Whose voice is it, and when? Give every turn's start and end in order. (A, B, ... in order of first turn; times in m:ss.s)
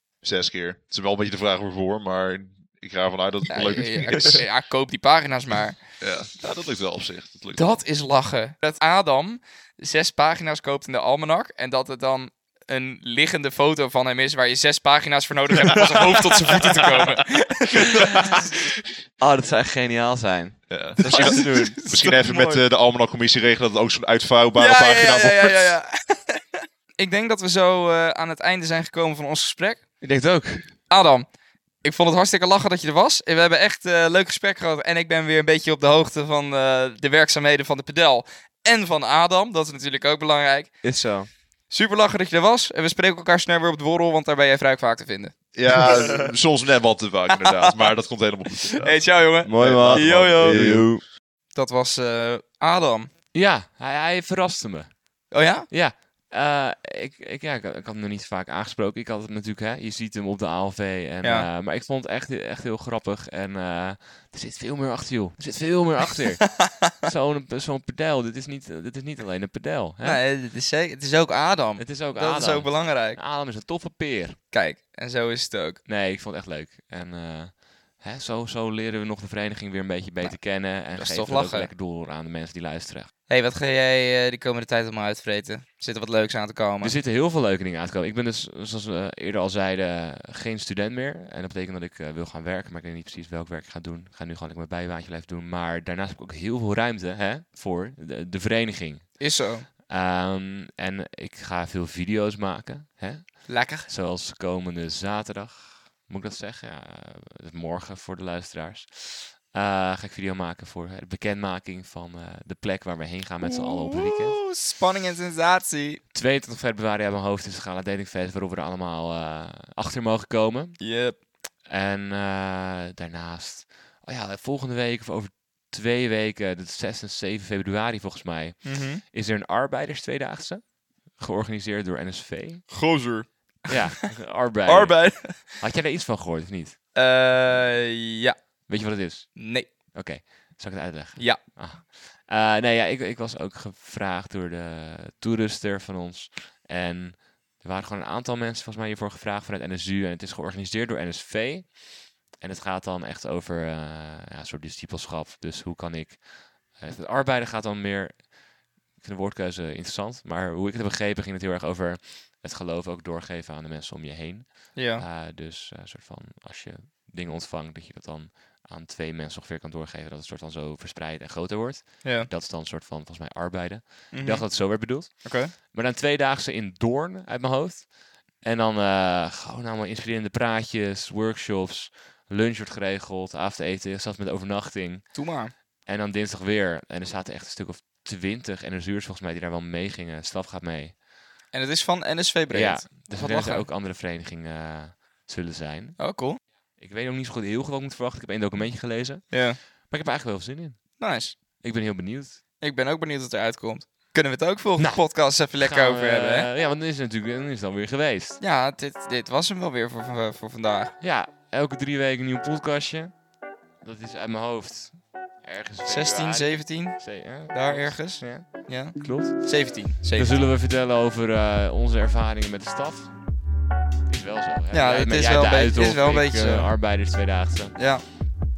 0:00.2-0:04.4 A
0:03.5-0:05.8 B
0:06.0-0:07.8 A
0:07.5-0:18.1 B
0:17.5-0:18.3 C
0:17.7-0:18.4 A
0:19.2-0:21.8 C
0:20.7-0:25.8 A
0:21.0-0:22.6 B
0:24.5-0:29.8 B
0:30.0-0:30.7 C
0:30.9-0:31.2 B
0:31.8-0:40.8 B
0:40.8-0:41.3 C
0:41.7-0:46.3 B
0:45.5-0:51.0 A
0:48.8-0:50.8 B
0:49.4-0:51.0 C
0:51.5-0:53.1 B
0:53.3-1:10.2 C
0:55.3-0:55.7 B
1:01.2-1:01.5 B
1:10.0-1:13.2 B
1:11.8-1:14.4 C
1:14.5-1:15.8 B
1:15.8-1:23.1 C
1:20.2-1:21.7 B
1:23.3-1:27.0 B
1:26.8-1:39.3 C
1:39.2-1:39.7 B
1:39.9-1:54.5 C
1:43.5-1:43.9 B
1:53.4-1:56.0 B
1:56.1-2:00.9 C
2:00.8-2:01.2 B
2:01.7-2:12.7 C
2:08.6-2:09.0 B
2:12.7-2:14.1 B
2:13.7-2:16.8 C
2:14.6-2:15.5 B
2:16.9-2:18.7 B
2:18.7-2:38.3 C
2:19.4-2:19.7 B
2:39.0-3:11.0 C
2:44.7-2:45.0 B
2:52.0-2:52.3 B
2:54.1-2:55.5 B
3:05.1-3:05.5 B
3:11.5-3:13.6 B
3:12.5-3:22.4 C
3:16.0-3:16.4 B
3:19.3-3:19.6 B
3:21.0-3:21.4 B
3:22.6-3:26.5 B
3:24.8-3:28.4 C
3:28.4-3:31.0 B
3:31.0-3:33.2 C
3:33.8-3:43.2 C
3:35.8-3:40.4 B
3:44.1-3:47.9 C
3:44.7-3:46.7 B
3:47.8-3:48.0 B